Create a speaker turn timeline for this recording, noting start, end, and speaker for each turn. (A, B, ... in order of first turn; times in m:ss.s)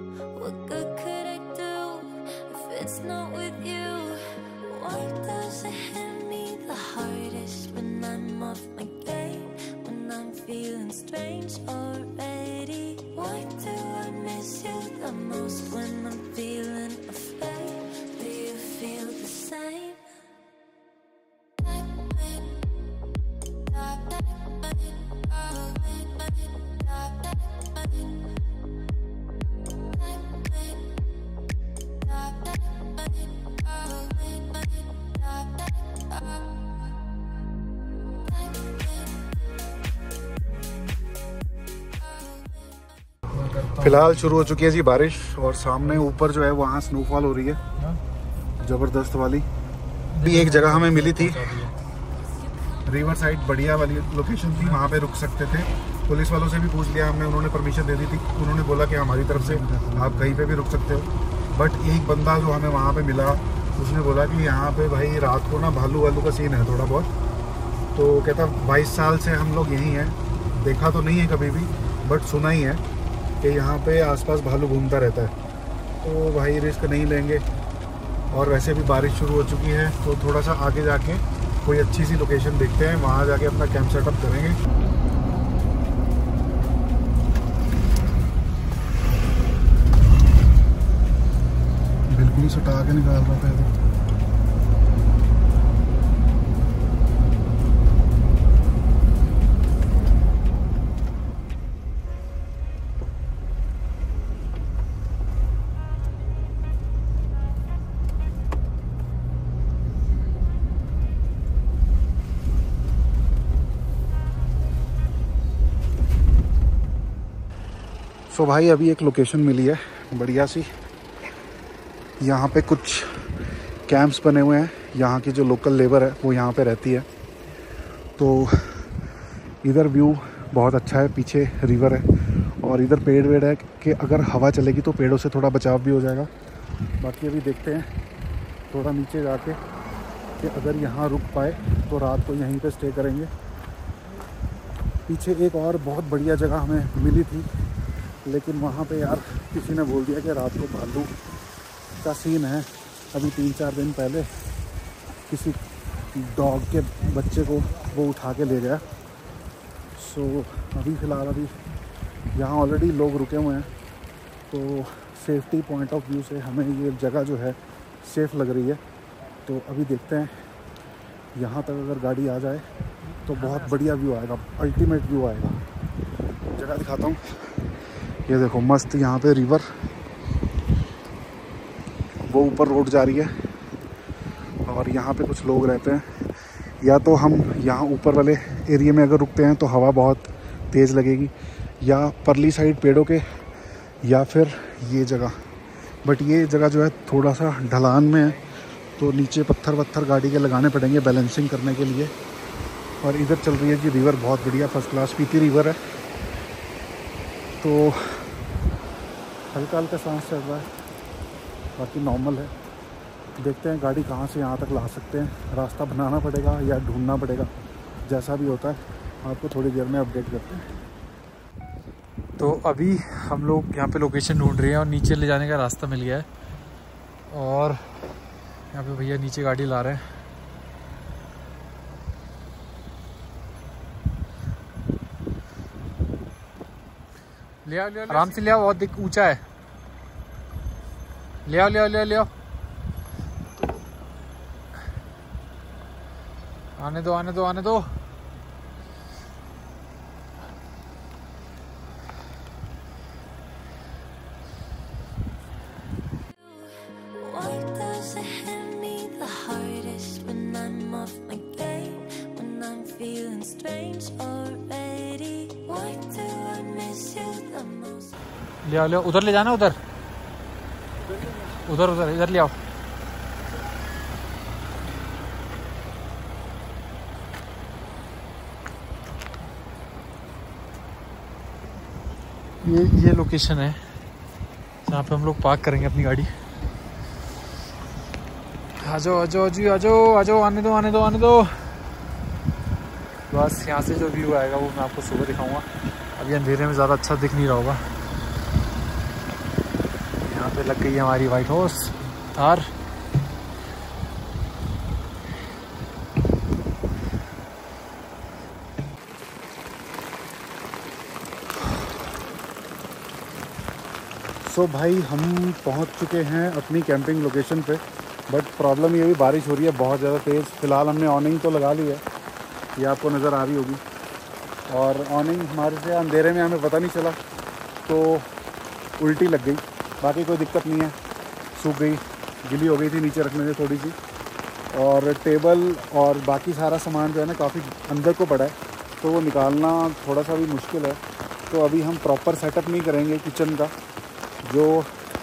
0:00.3-0:20.1 A
0:43.3-0:44.5 B
0:43.8-0:47.6 C
0:48.6-0:49.5 C
0:50.1-0:51.8 B
0:50.2-0:51.6 C
0:52.8-1:07.1 C
0:59.4-1:00.0 B
1:07.9-1:12.8 C
1:13.4-1:15.3 C
1:16.0-1:17.4 C
1:18.3-1:24.6 C
1:32.1-1:33.7 C
1:58.3-2:00.7 C
2:02.2-2:07.1 C
2:08.2-2:08.9 C
2:09.6-2:16.3 C
2:17.0-2:17.9 C
2:18.7-2:19.6 C
2:20.4-2:23.3 C
2:25.1-2:27.5 C
2:28.2-2:31.1 C
2:32.0-2:34.3 C
2:35.3-2:38.8 C
2:39.9-2:41.6 C
2:42.3-2:43.7 C
2:44.5-2:48.8 C
2:49.4-2:50.4 C
2:51.3-2:52.7 C
2:53.2-2:53.6 B
2:53.2-2:55.6 C
2:56.5-2:57.7 C
2:58.3-2:59.7 C
3:02.2-3:03.4 C
3:04.6-3:13.4 C
3:14.0-3:15.4 C
3:16.0-3:18.4 C
3:19.0-3:22.1 C
3:23.0-3:25.8 C
3:27.6-3:28.4 C
3:29.5-3:30.7 C
3:31.8-3:32.5 C
3:33.4-3:37.5 C
3:38.0-3:40.6 C
3:42.4-3:46.2 B
3:47.3-3:47.8 B
3:48.7-3:50.0 B
3:57.6-3:59.4 B
4:01.4-4:02.3 B
4:06.8-4:07.9 B
4:16.4-4:28.2 A
4:28.6-4:29.8 B
4:31.5-4:32.5 B
4:42.6-4:43.8 B
4:44.8-4:46.3 B
4:48.8-4:51.7 B
4:53.3-4:57.8 B
5:00.2-5:02.7 B
5:14.4-5:22.0 C
5:22.8-5:23.8 C
5:24.7-5:27.2 C
5:27.8-5:28.3 C
5:29.0-5:31.0 C
5:31.5-5:34.0 C
5:34.7-5:43.7 C
5:44.4-5:44.9 C